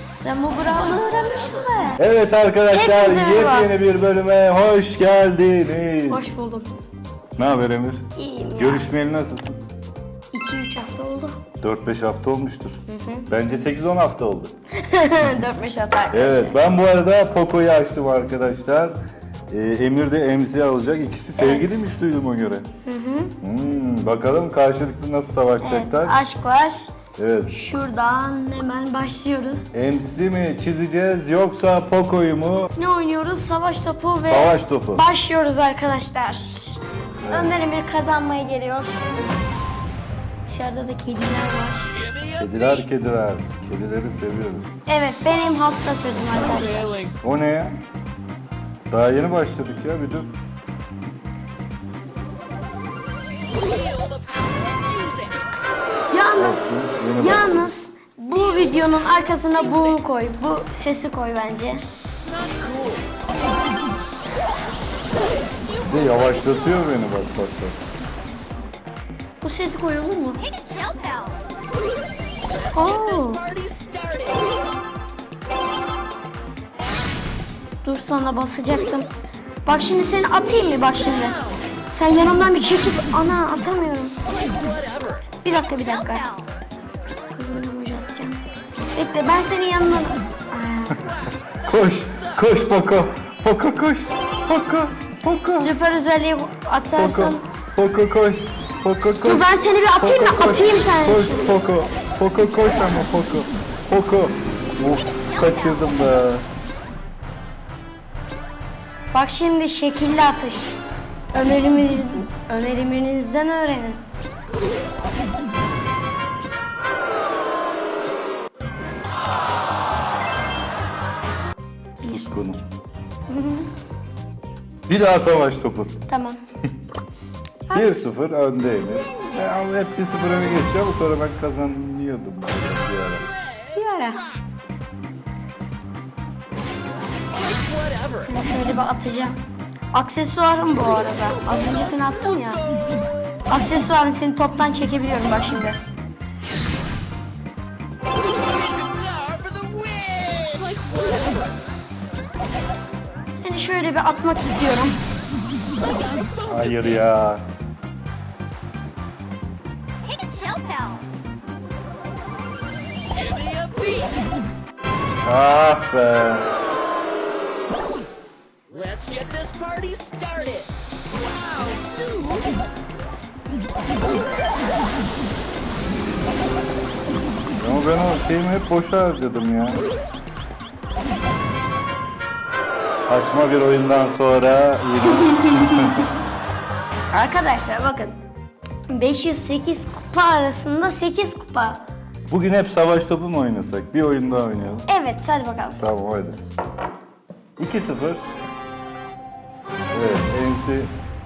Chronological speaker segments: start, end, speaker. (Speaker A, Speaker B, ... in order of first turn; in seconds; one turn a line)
Speaker A: 0.2-2.0
Speaker B: 2.0-6.3
Speaker A: 2.7-3.7
Speaker A: 6.1-6.8
Speaker B: 7.4-9.6
Speaker A: 8.2-8.9
Speaker A: 10.3-11.4
Speaker B: 11.6-14.5
Speaker A: 12.9-13.3
Speaker A: 14.7-16.6
Speaker B: 16.1-19.0
Speaker B: 19.5-22.7
Speaker A: 21.4-21.8
Speaker A: 22.9-23.4
Speaker B: 23.4-26.2
Speaker A: 25.6-26.9
Speaker B: 27.2-27.5
Speaker A: 27.5-29.7
Speaker B: 29.7-32.7
Speaker A: 32.8-39.2
Speaker B: 34.2-35.0
Speaker B: 37.2-37.5
Speaker A: 40.5-42.0
Speaker C: 42.1-42.3
Speaker B: 42.4-44.7
Speaker A: 44.9-47.1
Speaker B: 47.2-47.8
Speaker B: 48.9-50.3
Speaker C: 53.5-55.4
Speaker A: 56.1-61.9
Speaker B: 56.4-57.7
Speaker C: 62.3-63.0
Speaker B: 65.7-67.8
Speaker A: 69.4-70.5
Speaker C: 70.5-71.4
Speaker A: 72.7-73.5
Speaker C: 73.2-74.6
Speaker A: 77.8-79.1
Speaker A: 79.7-84.2
Speaker C: 84.4-85.2
Speaker A: 85.4-86.3
Speaker A: 87.3-88.4
Speaker A: 89.0-91.1
Speaker B: 91.5-95.7
Speaker A: 95.5-97.4
Speaker B: 97.0-106.5
Speaker A: 99.2-101.6
Speaker A: 109.1-110.8
Speaker A: 111.3-114.0
Speaker A: 122.0-122.5
Speaker B: 122.0-122.6
Speaker A: 123.3-123.7
Speaker B: 124.9-126.0
Speaker A: 126.1-126.4
Speaker A: 127.7-128.1
Speaker B: 127.7-133.3
Speaker A: 133.7-134.3
Speaker C: 137.3-138.1
Speaker A: 138.1-142.7
Speaker A: 143.5-145.8
Speaker C: 148.4-151.6
Speaker A: 153.3-155.0
Speaker C: 155.8-156.5
Speaker B: 156.5-157.4
Speaker C: 160.1-161.1
Speaker C: 163.1-164.1
Speaker B: 165.2-166.5
Speaker C: 168.7-172.5
Speaker B: 177.6-179.9
Speaker B: 183.1-186.1
Speaker A: 187.1-188.2
Speaker A: 188.9-191.8
Speaker B: 192.3-194.9
Speaker A: 194.9-195.8
Speaker B: 195.8-196.4
Speaker B: 197.6-198.3
Speaker B: 199.9-200.9